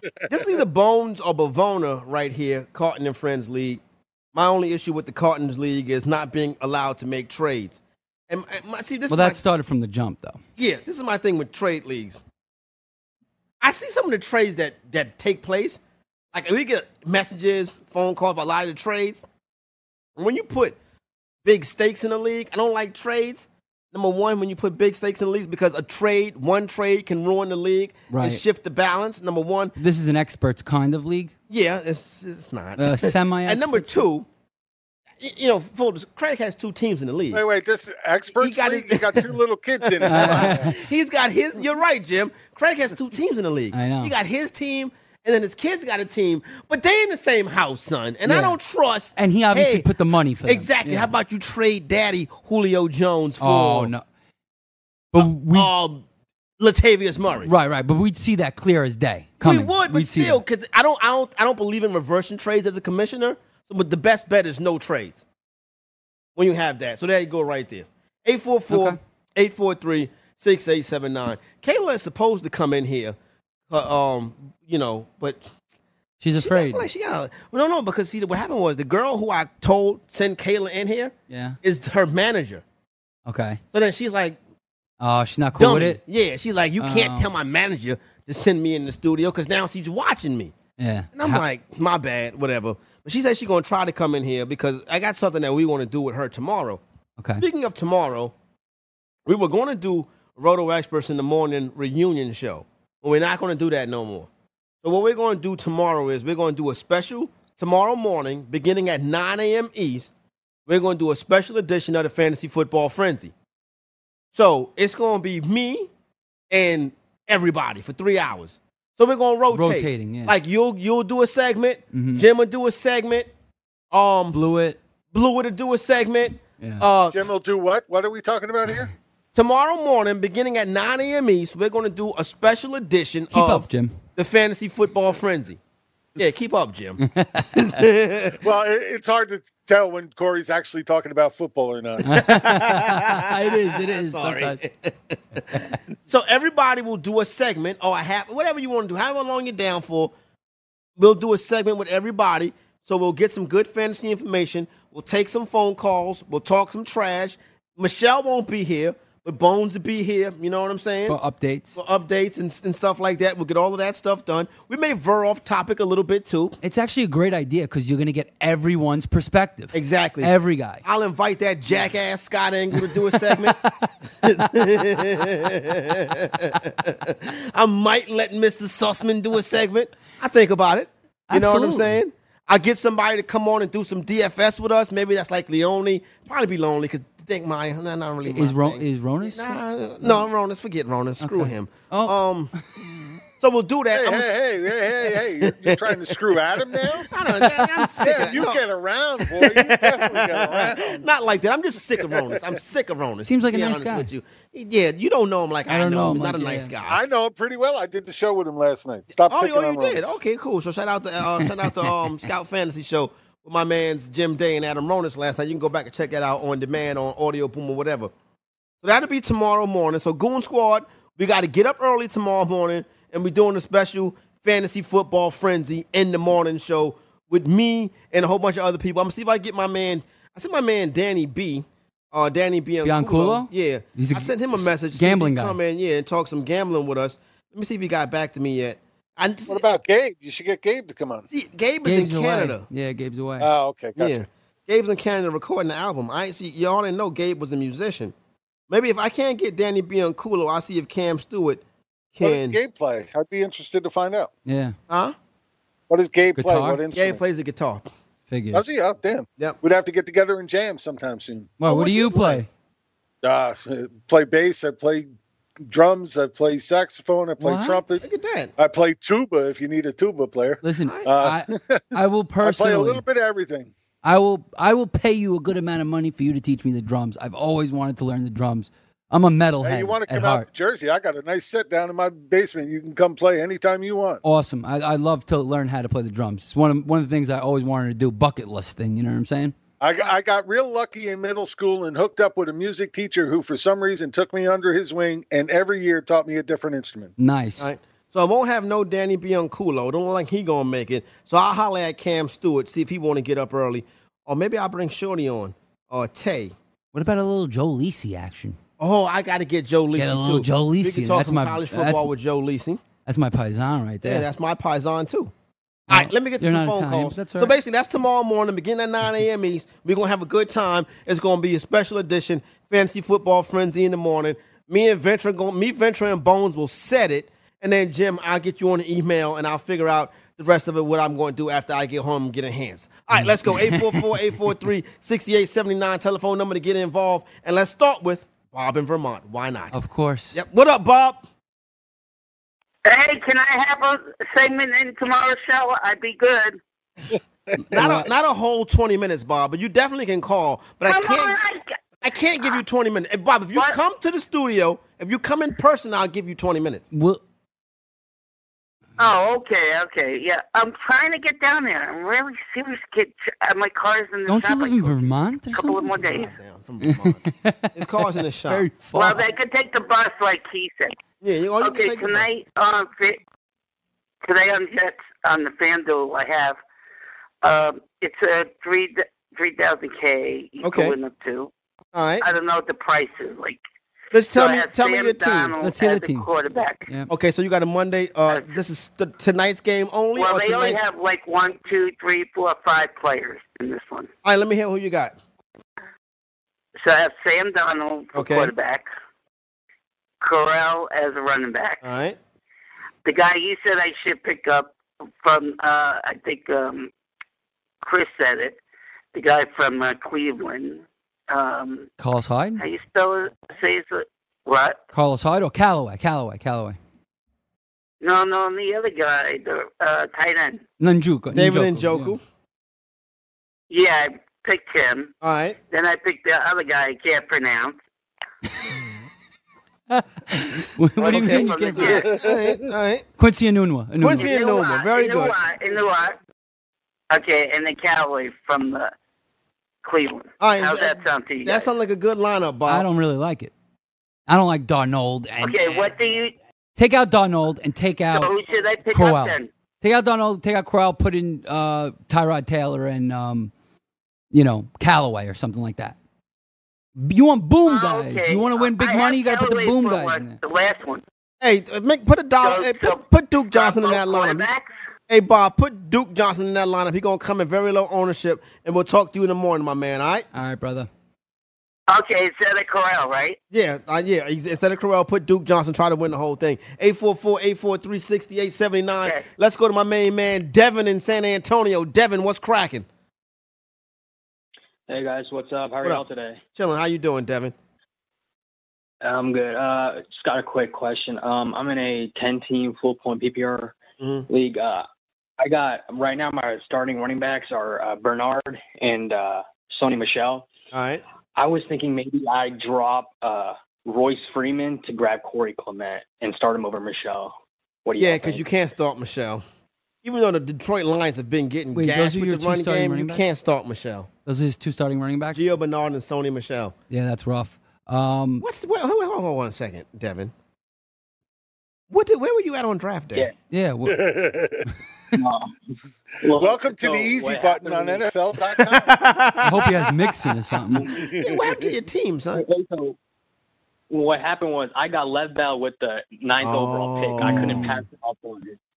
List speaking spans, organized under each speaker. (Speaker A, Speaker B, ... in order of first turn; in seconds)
Speaker A: 0.3-3.8, 4.3-7.8, 8.3-9.4, 10.6-12.2, 13.6-15.8, 16.3-19.2, 20.1-20.8, 21.4-29.8, 31.5-34.3, 35.2-37.4, 38.4-49.9, 50.4-53.9, 55.2-56.0, 56.6-57.5, 59.4-65.2, 66.3-73.2, 73.7-75.5, 76.4-82.6, 83.7-84.4, 85.5-90.5, 91.1-96.8, 97.4-98.3, 99.2-104.3, 104.8-110.1, 110.7-113.3, 114.3-115.9, 116.5-123.3, 123.9-124.4, 125.1-127.3, 129.3-135.6, 136.2-138.4, 142.1-150.1, 151.0-161.2, 161.8-166.6, 169.7-170.3, 170.8-173.6, 174.2-192.5, 193.4-198.6, 199.2-207.0, 209.2-218.1, 218.8-239.7, 241.3-242.7, 243.9-248.1, 248.7-252.6, 254.9-255.2, 256.9-257.9, 261.6-262.4, 268.0-268.5, 270.8-271.1, 297.6-306.5, 308.8-312.8, 314.0-315.3, 315.9-339.8, 340.3-341.2, 347.7-351.4, 352.0-356.9, 365.8-368.7, 371.2-372.3, 380.6-380.9, 381.9-382.3, 384.1-385.5, 387.1-390.8, 394.2-395.2, 398.1-398.5, 401.8-402.2, 421.3-422.2, 425.2-425.6, 431.0-433.1, 434.0-435.4, 440.4-442.9, 461.4-464.5, 465.1-470.2, 473.5-482.9, 486.5-487.5, 494.0-494.3, 500.7-501.0, 508.0-509.4, 510.0-514.1, 515.3-516.7, 518.4-520.3, 521.9-523.2, 528.5-530.6, 531.1-532.4, 536.4-537.8
Speaker B: 9.1-10.4, 28.1-28.4, 29.8-31.3, 32.8-34.0, 40.0-40.8, 43.7-44.1, 48.2-48.5, 49.1-51.1, 53.4-54.0, 55.1-55.7, 57.4-60.4, 68.7-69.0, 76.2-76.9, 81.3-81.6, 83.3-83.6, 85.0-86.0, 86.8-87.3, 90.8-91.4, 97.2-97.4, 119.5-120.3, 121.9-122.2, 124.3-124.8, 126.6-126.9, 133.3-134.0, 137.0-137.8, 142.0-144.6, 161.1-161.8, 166.6-170.8, 172.7-175.0, 181.3-182.0, 188.2-190.1, 191.2-192.2, 197.4-197.9, 203.2-204.1, 205.7-206.7, 211.4-212.0, 232.8-235.6, 241.8-243.5, 254.4-254.8, 256.3-256.8, 258.3-258.6, 261.6-262.5, 267.4-268.0, 270.6-273.0, 274.0-280.4, 284.2-289.5, 297.2-297.7, 306.9-308.6, 309.9-312.1, 313.1-314.2, 315.9-317.5, 333.1-334.1, 339.7-340.4, 347.6-348.1, 356.9-357.2, 364.2-365.9, 366.8-369.2, 385.6-386.3, 412.0-412.6, 414.9-416.8, 420.8-422.1, 429.9-432.0, 433.2-434.3, 442.7-443.5, 444.3-445.9, 446.8-448.3, 448.9-453.5, 454.3-455.9, 457.0-460.4, 470.3-470.9, 511.7-513.2, 514.2-515.5, 516.9-518.4, 523.5-524.0, 529.4-530.9, 537.2-537.7
Speaker C: 37.3-40.7, 127.1-128.9, 138.4-142.2, 193.9-197.1, 198.0-201.0, 202.0-202.4, 206.9-210.1, 239.5-241.2, 243.4-244.2, 252.2-254.3, 255.9-257.2, 258.5-261.5, 263.2-265.1, 265.7-268.0, 268.6-271.8, 272.4-273.7, 279.6-284.2, 289.8-297.1, 432.1-432.5, 523.9-524.6, 526.3-528.9, 531.0-531.4
Speaker D: 342.9-346.6, 350.8-351.7, 359.0-365.0, 365.5-366.3, 368.9-370.9, 371.6-373.2, 374.2-376.6, 377.4-381.5, 382.2-383.6, 384.3-386.8, 388.3-388.6, 390.1-394.1, 396.8-398.9, 400.2-401.8, 403.0-406.9, 407.8-408.6, 409.1-411.9, 412.6-414.8, 418.0-420.6, 423.7-425.1, 425.7-427.8, 431.0-432.1, 434.2-436.2, 437.1-438.9, 439.8-441.7, 445.4-446.3, 448.1-449.5, 457.6-461.0, 462.4-464.7, 471.9-473.4
Speaker E: 484.9-486.4, 489.0-494.9, 495.4-500.5, 501.3-507.3, 507.8-508.4, 525.1-528.0, 532.3-533.0, 533.9-538.6